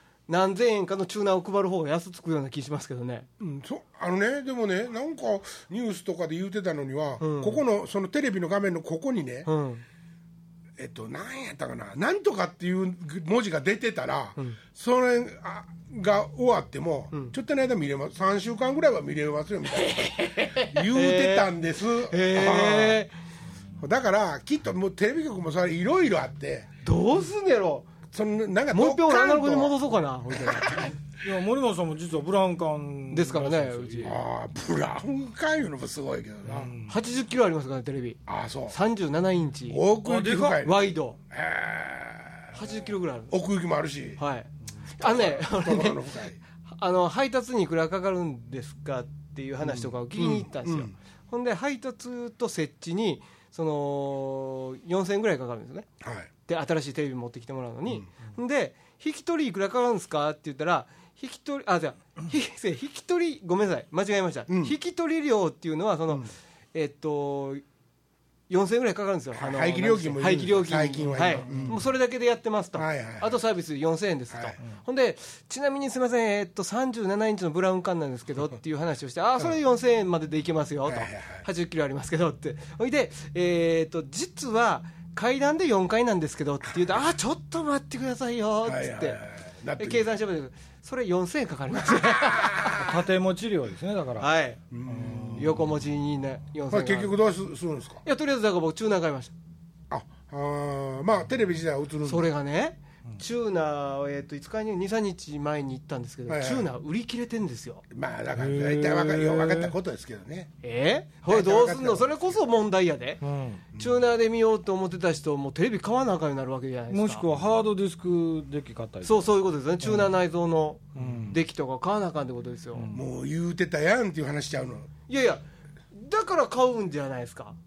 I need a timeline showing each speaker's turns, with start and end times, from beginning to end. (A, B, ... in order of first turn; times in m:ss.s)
0:00.3-0:03.3 A
0:03.4-0:09.5 B
0:07.2-0:07.6 A
0:09.4-0:09.8 A
0:10.8-0:23.0 B
0:19.9-0:23.1 A
0:23.8-0:26.7 B
0:26.8-0:27.9 A
0:28.1-0:29.8 B
0:28.7-0:30.9 A
0:30.3-0:30.9 B
0:31.2-0:34.2 C
0:33.1-0:34.2 A
0:34.0-0:36.7 B
0:36.4-0:37.0 C
0:36.9-0:39.8 A
0:38.3-0:38.8 B
0:39.7-0:42.6 B
0:40.0-0:40.6 C
0:40.5-0:41.2 A
0:42.5-0:43.4 A
0:43.3-0:44.2 B
0:44.2-0:46.1 A
0:45.0-0:46.4 B
0:46.7-0:55.9 A
0:49.6-0:50.9 B
0:56.0-0:56.3 B
0:56.4-1:07.6 A
1:04.5-1:04.7 B
1:08.5-1:29.2 A
1:09.3-1:11.8 B
1:11.0-1:11.8 C
1:12.8-1:13.4 B
1:14.3-1:14.6 B
1:20.9-1:21.4 B
1:28.6-1:30.0 B
1:29.8-1:32.8 A
1:31.8-1:32.9 B
1:32.8-1:34.3 C
1:34.2-1:34.6 A
1:34.7-1:35.6 B
1:34.8-1:35.7 C
1:35.4-1:37.2 A
1:36.7-1:38.0 B
1:38.0-1:39.3 A
1:39.9-1:42.3 B
1:42.0-1:47.8 A
1:46.3-1:46.7 B
1:47.9-1:50.5 B
1:48.3-1:49.7 C
1:50.6-1:53.2 A
1:51.2-1:52.4 B
1:53.2-1:53.6 C
1:53.7-1:57.2 A
1:53.7-1:54.0 B
1:56.9-2:00.1 C
1:59.0-2:02.9 A
2:00.9-2:01.4 C
2:02.7-2:03.1 C
2:02.9-2:04.9 B
2:05.1-2:07.6 A